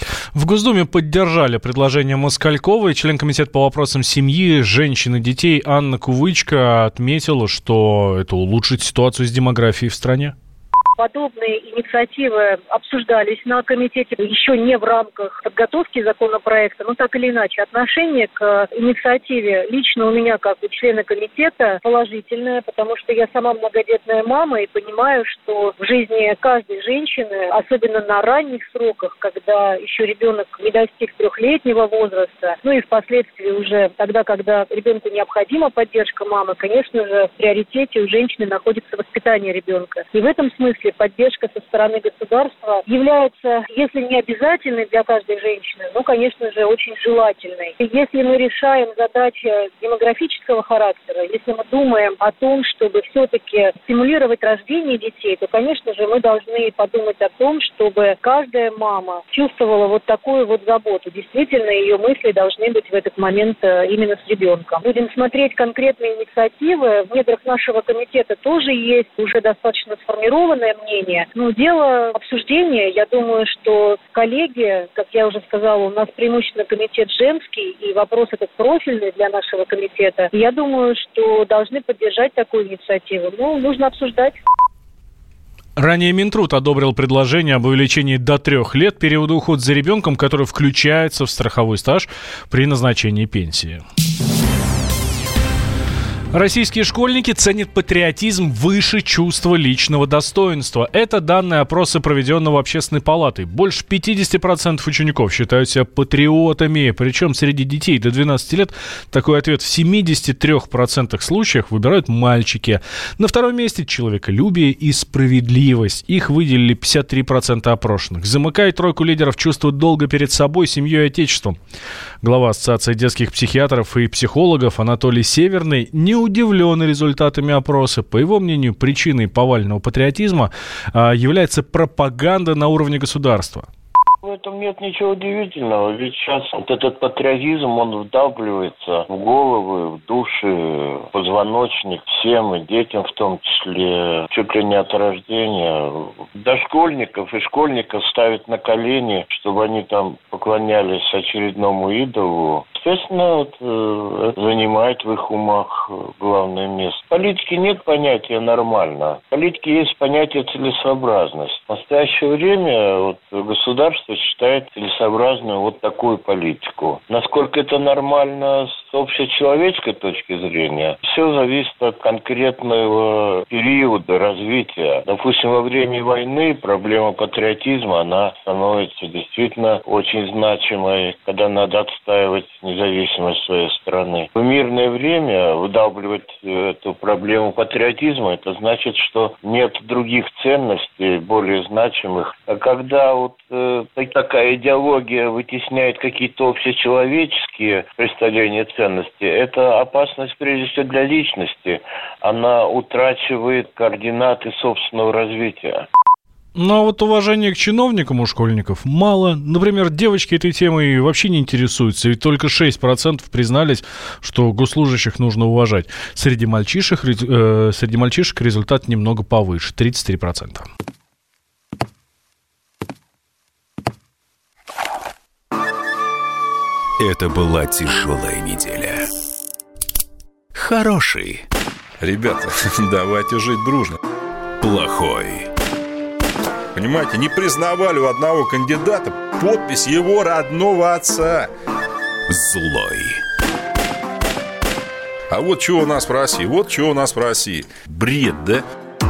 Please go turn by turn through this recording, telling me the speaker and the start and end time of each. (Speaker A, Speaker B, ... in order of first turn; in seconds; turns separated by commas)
Speaker A: 0.3-10.3, Speaker B: 11.0-84.4, Speaker A: 85.8-93.8, Speaker A: 96.3-121.6, Speaker A: 122.2-133.7, Speaker C: 134.2-205.8, Speaker A: 206.6-220.7, Speaker D: 227.0-229.0, Speaker D: 230.5-231.4, Speaker E: 232.0-234.0, Speaker D: 234.6-235.5, Speaker E: 236.7-241.5, Speaker D: 242.3-243.2, Speaker E: 245.3-248.6